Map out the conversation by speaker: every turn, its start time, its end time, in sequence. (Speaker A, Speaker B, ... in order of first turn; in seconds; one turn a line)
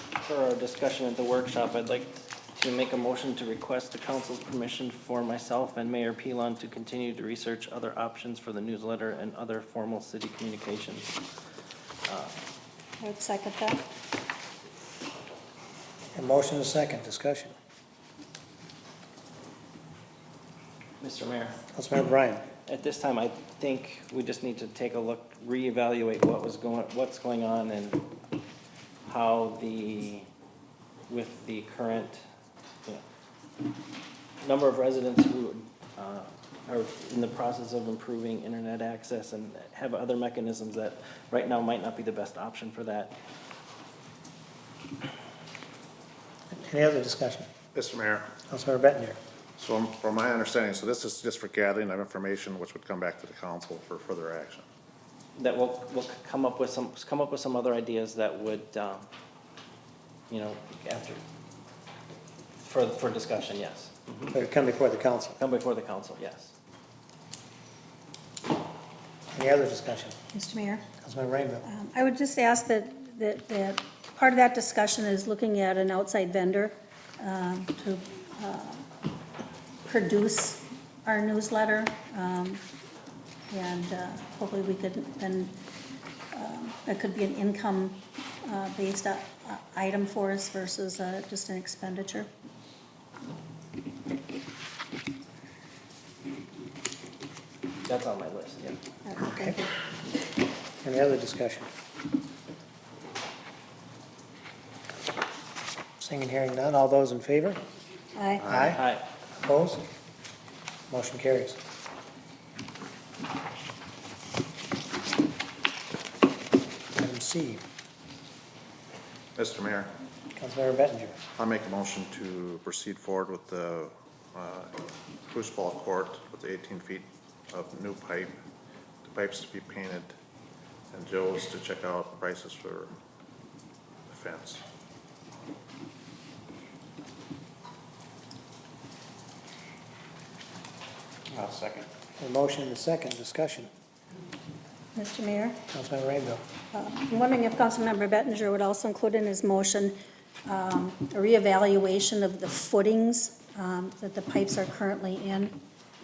Speaker A: 0.2-11.1
Speaker A: 12.1-12.3
Speaker B: 13.0-13.8
Speaker C: 16.1-17.5
Speaker A: 21.0-21.6
Speaker C: 21.7-22.5
Speaker A: 22.7-28.0
Speaker A: 29.1-30.3
Speaker A: 31.1-32.2
Speaker A: 34.4-43.2
Speaker C: 46.5-47.5
Speaker D: 47.7-48.4
Speaker C: 48.4-49.2
Speaker D: 49.6-54.6
Speaker A: 55.4-59.1
Speaker A: 60.3-61.2
Speaker A: 62.6-64.3
Speaker C: 64.3-65.4
Speaker A: 65.4-66.5
Speaker C: 69.3-70.2
Speaker B: 70.3-70.9
Speaker C: 71.0-71.7
Speaker B: 71.7-78.9
Speaker B: 79.8-82.6
Speaker B: 83.5-85.6
Speaker B: 86.3-92.3
Speaker A: 97.9-98.8
Speaker B: 99.0-99.7
Speaker C: 99.2-99.6
Speaker C: 100.8-101.7
Speaker C: 106.0-107.6
Speaker B: 108.2-108.5
Speaker C: 108.4-108.8
Speaker A: 108.6-109.0
Speaker C: 109.4-109.8
Speaker C: 110.9-111.6
Speaker C: 117.0-117.6
Speaker D: 119.3-119.9
Speaker C: 120.3-121.2
Speaker D: 121.4-124.7
Speaker D: 125.3-128.3
Speaker D: 129.0-130.1
Speaker D: 130.9-132.9
Speaker D: 134.1-134.6
Speaker D: 141.3-141.9
Speaker C: 142.2-143.7
Speaker B: 144.9-145.6
Speaker C: 145.7-146.4
Speaker B: 146.7-155.6